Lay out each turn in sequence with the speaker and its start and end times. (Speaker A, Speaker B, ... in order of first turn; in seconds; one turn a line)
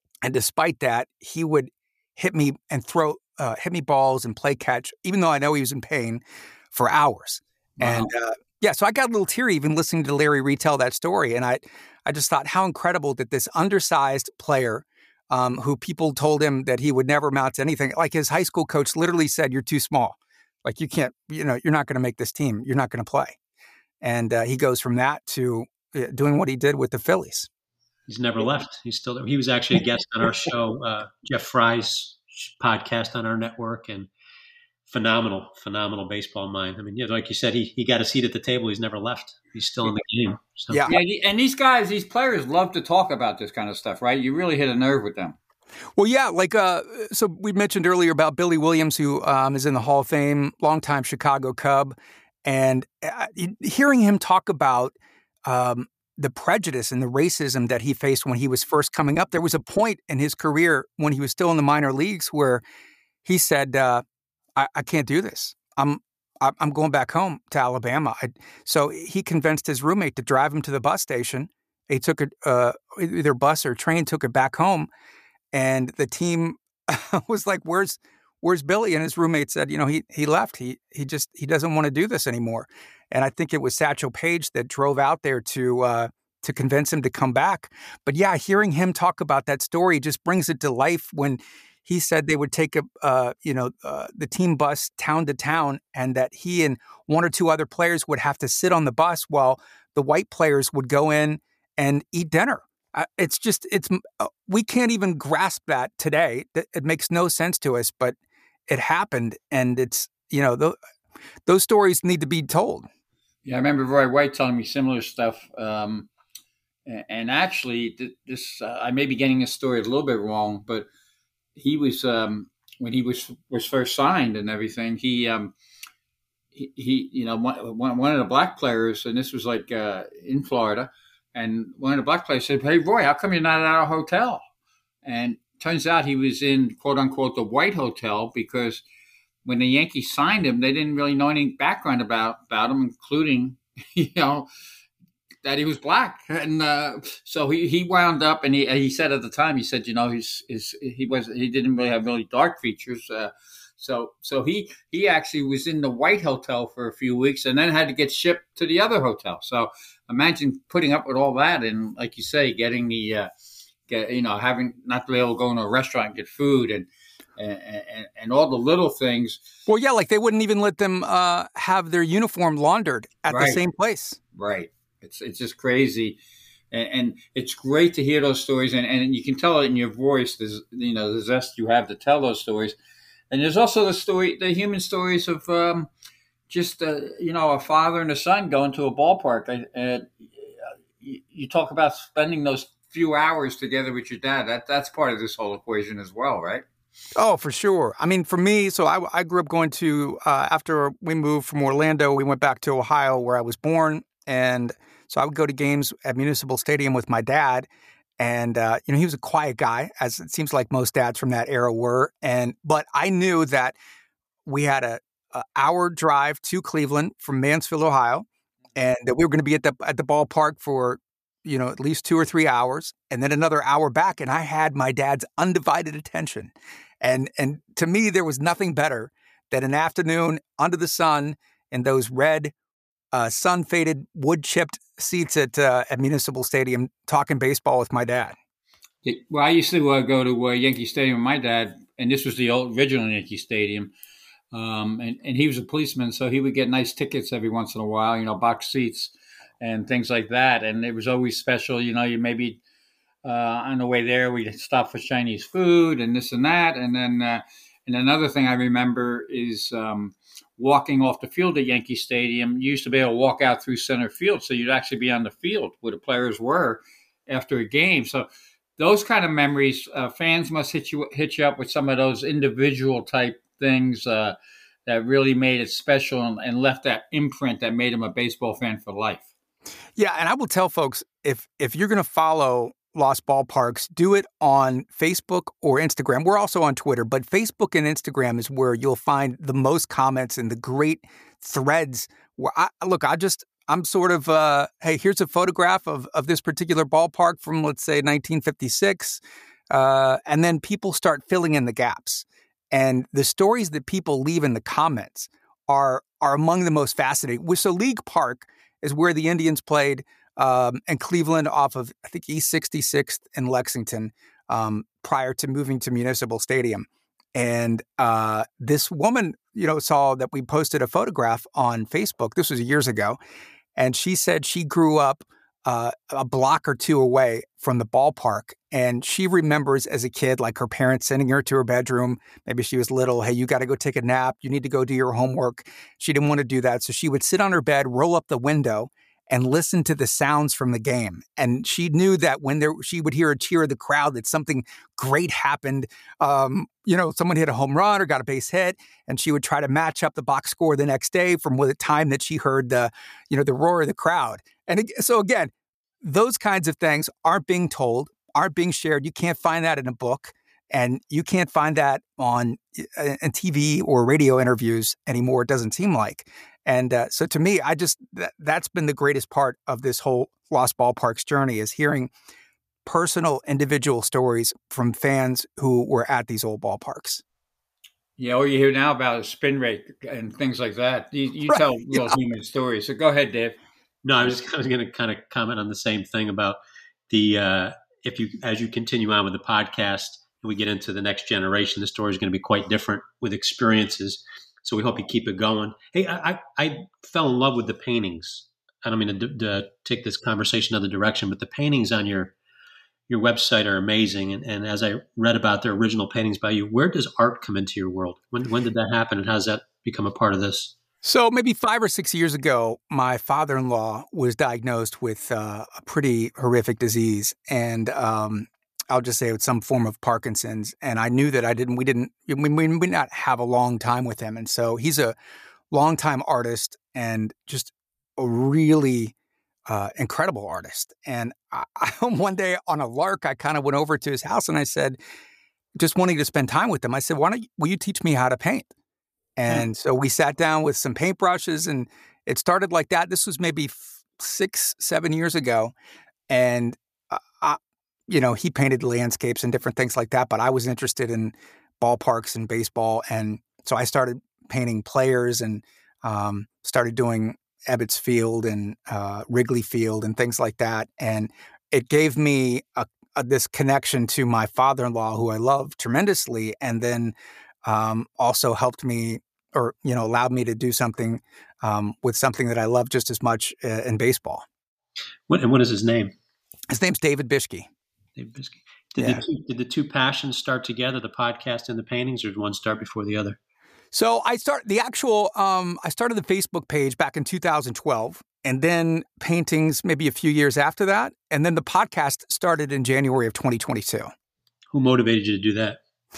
Speaker A: 0.2-6.2
Speaker A: 6.7-23.4
Speaker B: 7.8-8.1
Speaker A: 24.0-27.5
Speaker C: 28.1-34.1
Speaker C: 34.9-40.9
Speaker A: 40.7-41.0
Speaker B: 40.9-45.4
Speaker A: 46.0-54.9
Speaker A: 55.5-62.6
Speaker A: 63.2-64.0
Speaker A: 64.5-74.9
Speaker A: 75.5-108.2
Speaker A: 108.7-110.8
Speaker A: 111.5-112.9
Speaker B: 113.4-116.1
Speaker B: 116.8-120.9
Speaker B: 121.5-125.5
Speaker B: 126.5-134.4
Speaker B: 135.0-138.8
Speaker B: 139.4-144.5
Speaker B: 145.4-163.3
Speaker B: 163.9-169.4
Speaker A: 169.7-174.2
Speaker B: 173.3-173.6
Speaker B: 174.3-176.2
Speaker B: 176.7-182.8
Speaker B: 183.3-185.9
Speaker B: 186.5-196.6
Speaker A: 197.2-207.7
Speaker A: 208.2-213.8
Speaker A: 214.4-232.5
Speaker A: 233.1-238.3
Speaker B: 239.0-243.9
Speaker B: 244.5-252.6
Speaker B: 253.2-274.4
Speaker B: 274.9-279.3
Speaker A: 280.0-299.2
Speaker A: 299.7-323.2
Speaker A: 323.8-372.1
Speaker A: 372.8-377.2
Speaker B: 378.2-383.6
Speaker A: 381.5-382.1
Speaker C: 384.0-386.6
Speaker C: 387.1-402.3
Speaker C: 403.1-410.7
Speaker A: 411.0-425.1
Speaker A: 425.7-429.1
Speaker A: 429.7-435.0
Speaker A: 435.8-438.7
Speaker A: 439.4-445.7
Speaker A: 446.3-467.1
Speaker A: 467.6-474.4
Speaker C: 475.3-476.1
Speaker A: 476.7-477.7
Speaker C: 478.1-483.4
Speaker A: 483.9-494.1
Speaker C: 494.7-495.8